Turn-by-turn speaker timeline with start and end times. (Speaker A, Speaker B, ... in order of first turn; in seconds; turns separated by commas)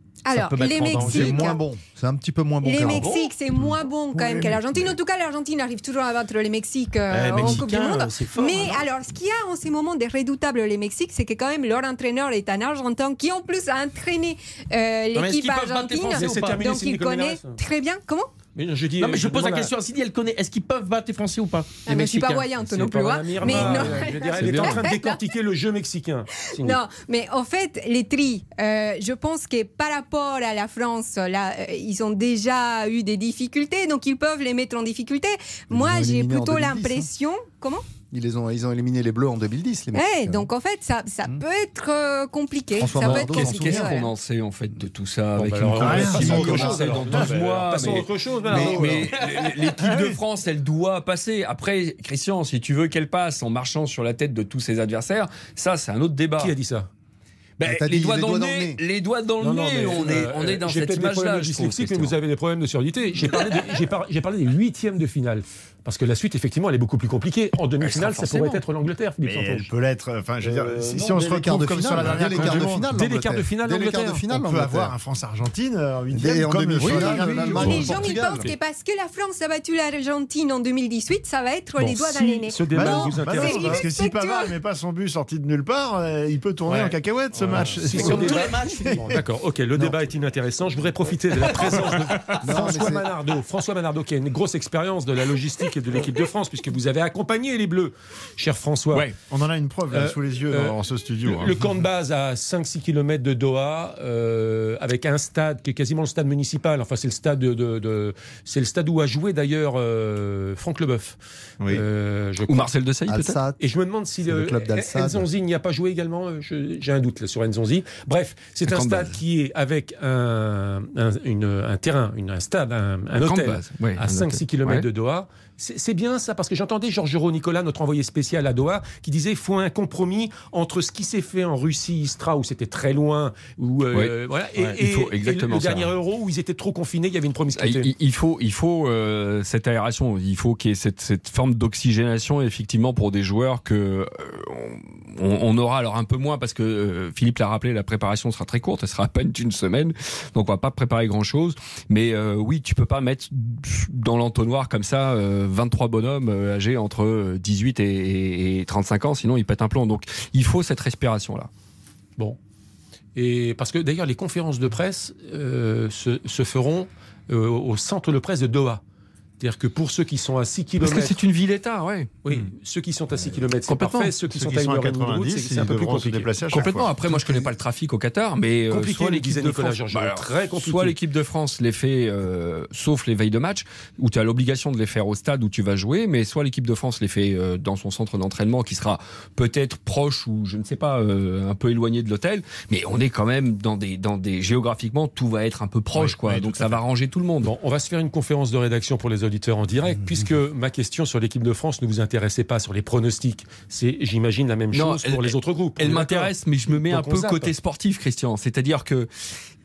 Speaker A: 0.2-1.6, Speaker B: 0.3-1.6, Speaker C: 1.0-3.1, Speaker A: 2.6-18.3, Speaker B: 2.7-3.3, Speaker D: 4.2-4.6, Speaker B: 7.1-8.9, Speaker B: 15.1-16.7, Speaker E: 16.1-17.6, Speaker E: 18.5-19.7, Speaker B: 19.0-22.5, Speaker A: 21.9-25.2, Speaker E: 22.6-26.8, Speaker F: 23.5-24.8, Speaker A: 26.5-37.8, Speaker C: 35.7-37.1, Speaker C: 38.1-40.5, Speaker A: 39.9-44.1, Speaker C: 42.8-44.0, Speaker F: 43.0-56.5, Speaker E: 45.4-49.2, Speaker D: 45.8-47.3, Speaker C: 48.5-48.8, Speaker B: 49.2-49.6, Speaker E: 56.4-56.9, Speaker F: 57.6-62.1, Speaker C: 57.6-58.8, Speaker E: 59.4-69.7, Speaker F: 67.8-68.6, Speaker D: 69.2-73.0, Speaker E: 70.4-71.0, Speaker C: 70.9-74.9, Speaker E: 72.1-74.2, Speaker D: 74.3-78.2, Speaker C: 76.1-78.5, Speaker E: 76.8-77.8, Speaker A: 77.5-84.5, Speaker E: 81.8-83.8, Speaker D: 82.6-89.2, Speaker E: 86.7-99.1, Speaker B: 87.6-89.2, Speaker B: 91.5-92.1, Speaker C: 92.4-93.1, Speaker D: 99.3-101.7, Speaker E: 99.9-112.7, Speaker F: 112.4-113.4, Speaker C: 113.1-113.6, Speaker E: 113.6-137.9, Speaker C: 114.2-115.3, Speaker F: 118.7-119.2, Speaker F: 123.2-124.8, Speaker F: 134.8-135.9, Speaker F: 137.5-161.5, Speaker E: 163.2-168.8, Speaker E: 169.4-171.3, Speaker F: 170.8-172.1, Speaker E: 172.2-176.3, Speaker F: 173.7-174.1, Speaker D: 174.3-177.5, Speaker F: 176.4-197.5, Speaker E: 178.7-181.0, Speaker E: 195.9-196.8, Speaker E: 197.4-207.5, Speaker F: 204.7-209.1